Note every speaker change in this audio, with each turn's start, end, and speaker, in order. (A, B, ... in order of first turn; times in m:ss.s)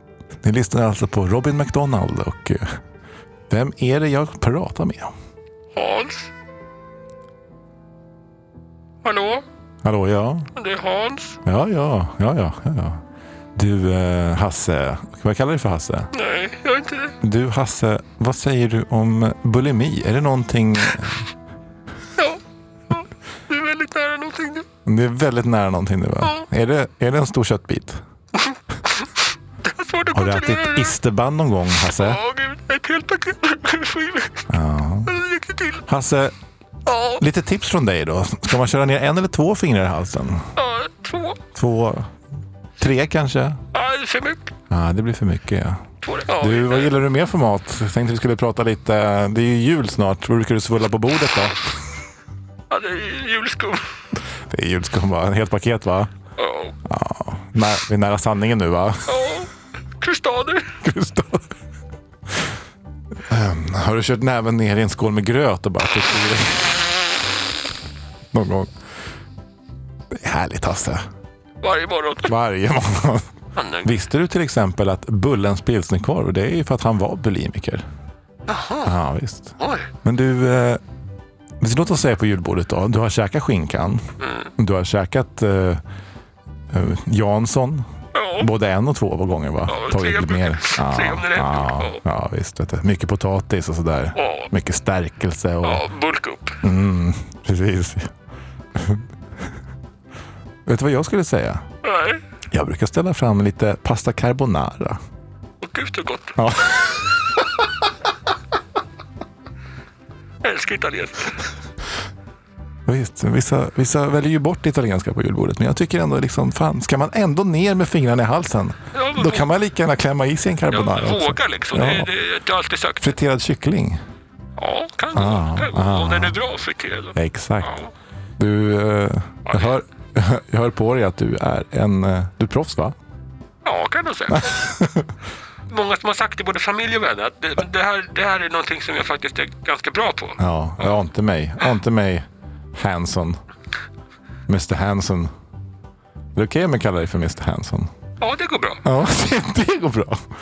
0:00.4-0:02.7 A
0:03.5-0:05.1 A
0:05.8-0:06.3 B
0:09.0-0:09.4 B
0:09.8-0:10.5 A
0:10.6-0:11.4 B
0:11.4-0:13.0 A
0:13.6-0:16.1 A
0:16.1-0:17.2 B
0:17.2-0:21.3 A
0:22.2-0:24.7 B
0:24.9-0:28.0 A
0:29.6-0:31.0 B
0:30.1-0:32.2 A
0:31.9-0:34.5 B
0:34.5-0:35.2 A
0:35.1-0:35.8 B
0:35.9-0:36.3 A
0:36.9-0:37.2 B
0:37.2-0:40.5 A
0:40.6-0:41.4 B
0:41.6-0:42.1 A
0:42.8-0:43.6 A
0:43.7-0:44.5 B
0:44.7-0:45.8 A
0:46.0-0:47.0 B
0:46.4-0:51.6 A
0:52.7-0:53.8 B
0:54.5-0:56.1 A
0:56.4-0:56.8 B
0:56.9-0:59.1 A
0:59.1-0:59.5 B
1:00.0-1:00.7 B
1:00.8-1:01.5 A
1:03.3-1:06.8 A
1:08.3-1:08.7 A
1:10.1-1:11.0 A
1:11.6-1:12.4 B
1:12.3-1:13.3 A
1:13.6-1:13.9 B
1:13.8-1:17.8 A
1:18.5-1:18.9 B
1:18.8-1:20.8 A
1:19.6-1:19.9 B
1:21.6-1:24.0 A
1:24.2-1:24.5 B
1:24.6-1:25.8 A
1:26.7-1:27.9 A
1:28.2-1:28.5 B
1:28.4-1:35.8 A
1:29.7-1:32.0 B
1:34.2-1:34.5 B
1:35.6-1:36.6 B
1:36.6-1:38.1 A
1:38.8-1:39.0 A
1:40.7-1:41.6 A
1:41.8-1:42.2 B
1:42.5-1:45.0 A
1:45.6-1:46.4 B
1:46.4-1:47.1 A
1:50.4-1:51.4 B
1:52.9-2:02.1 A
1:59.0-1:59.5 B
2:00.7-2:03.1 B
2:03.0-2:04.0 A
2:04.6-2:07.9 B
2:05.1-2:06.4 A
2:07.2-2:07.7 A
2:08.4-2:13.0 A
2:09.5-2:09.8 B
2:13.6-2:14.6 B
2:14.3-2:15.1 A
2:15.7-2:20.9 B
2:20.4-2:23.4 A
2:24.5-2:25.3 A
2:26.4-2:27.9 A
2:28.2-2:28.8 B
2:28.8-2:30.2 A